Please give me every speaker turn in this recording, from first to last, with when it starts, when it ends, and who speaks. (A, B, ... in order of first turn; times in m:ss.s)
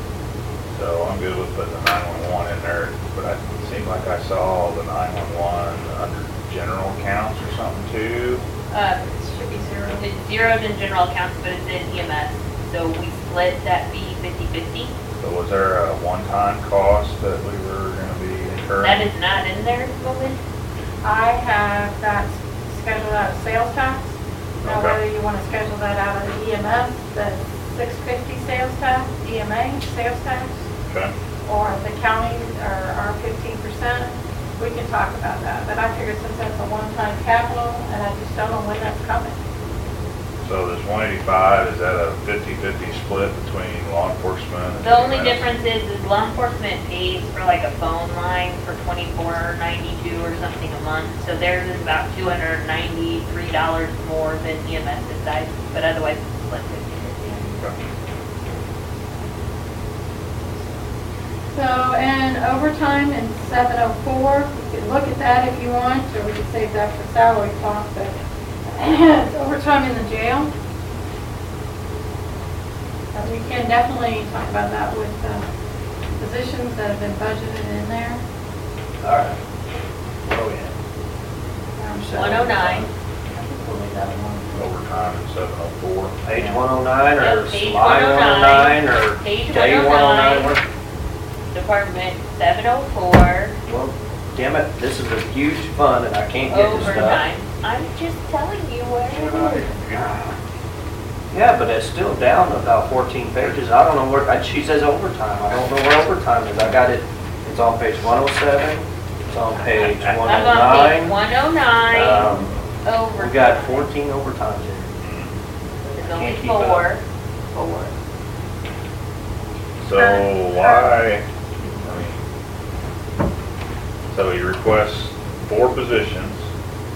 0:00.7-0:08.4 A
0:08.7-0:10.1 B
0:10.0-0:14.9 C
0:15.2-0:19.1 A
0:18.8-0:20.4 C
0:21.0-0:24.1 B
0:24.6-0:25.0 A
0:24.6-0:30.6 B
0:30.9-0:31.1 A
0:31.4-0:39.4 B
0:40.4-0:45.4 A
0:44.8-0:57.4 C
1:01.5-1:10.5 B
1:13.1-1:15.4 B
1:16.2-1:18.2 B
1:19.0-1:19.4 D
1:20.2-1:20.7 D
1:21.8-1:22.5 B
1:21.9-1:24.5 D
1:22.1-1:22.9 C
1:24.5-1:26.6 A
1:26.2-1:30.6 D
1:27.2-1:30.5 C
1:31.5-1:33.5 C
1:33.7-1:37.2 D
1:36.5-1:39.6 C
1:39.3-1:40.1 A
1:41.3-1:51.2 D
1:50.2-1:53.9 C
1:51.9-1:52.5 D
1:53.2-1:54.9 D
1:55.0-1:55.4 A
1:55.9-1:57.9 C
1:56.0-1:56.9 D
1:59.8-2:01.2 A
1:59.9-2:00.9 B
2:01.8-2:02.2 A
2:04.1-2:06.4 A